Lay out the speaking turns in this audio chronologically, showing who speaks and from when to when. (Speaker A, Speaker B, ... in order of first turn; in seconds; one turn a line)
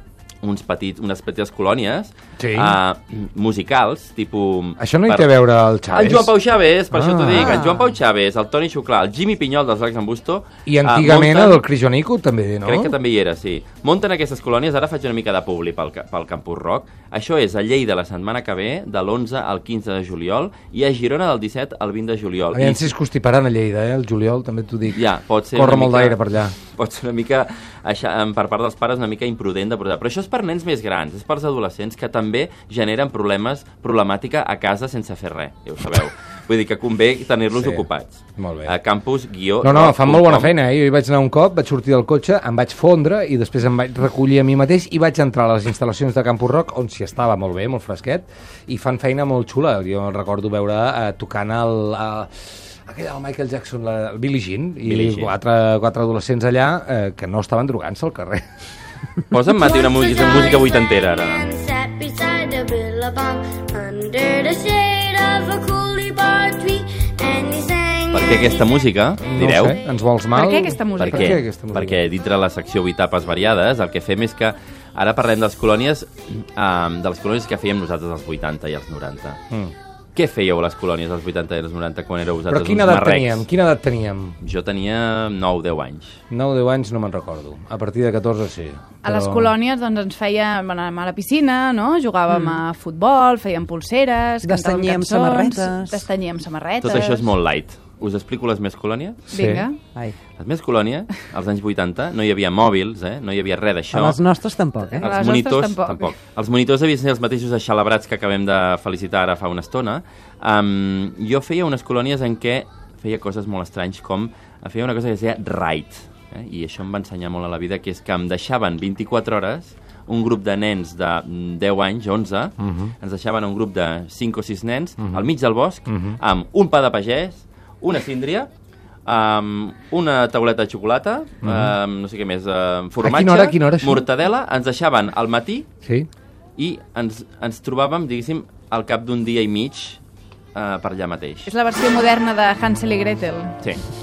Speaker A: 0.4-5.3
Speaker B: 2.4-2.8
Speaker B: 4.8-6.3
Speaker A: 5.9-11.6
Speaker B: 6.9-7.6
Speaker B: 10.7-12.9
Speaker A: 12.6-22.9
Speaker B: 22.5-26.5
Speaker A: 24.9-40.5
Speaker B: 37.5-37.9
Speaker B: 38.4-38.7
Speaker B: 39.6-58.4
Speaker A: 54.8-55.3
Speaker A: 59.3-61.5
Speaker C: 59.7-68.7
Speaker A: 68.1-69.8
Speaker B: 69.2-72.0
Speaker D: 70.3-71.4
Speaker A: 71.0-79.4
Speaker A: 80.1-83.4
Speaker B: 82.5-84.4
Speaker A: 84.4-86.2
Speaker B: 86.3-89.5
Speaker D: 89.0-97.2
Speaker E: 94.4-96.0
Speaker A: 96.8-99.3
Speaker D: 99.3-99.8
Speaker B: 99.3-99.6
Speaker A: 100.4-104.2
Speaker E: 103.9-105.0
Speaker D: 104.9-106.1
Speaker A: 105.0-128.5
Speaker B: 122.6-122.9
Speaker B: 125.0-125.2
Speaker B: 125.8-126.2
Speaker A: 129.1-135.7
Speaker B: 131.4-131.7
Speaker B: 133.0-134.0
Speaker A: 136.6-140.0
Speaker A: 140.5-141.5
Speaker D: 141.5-143.5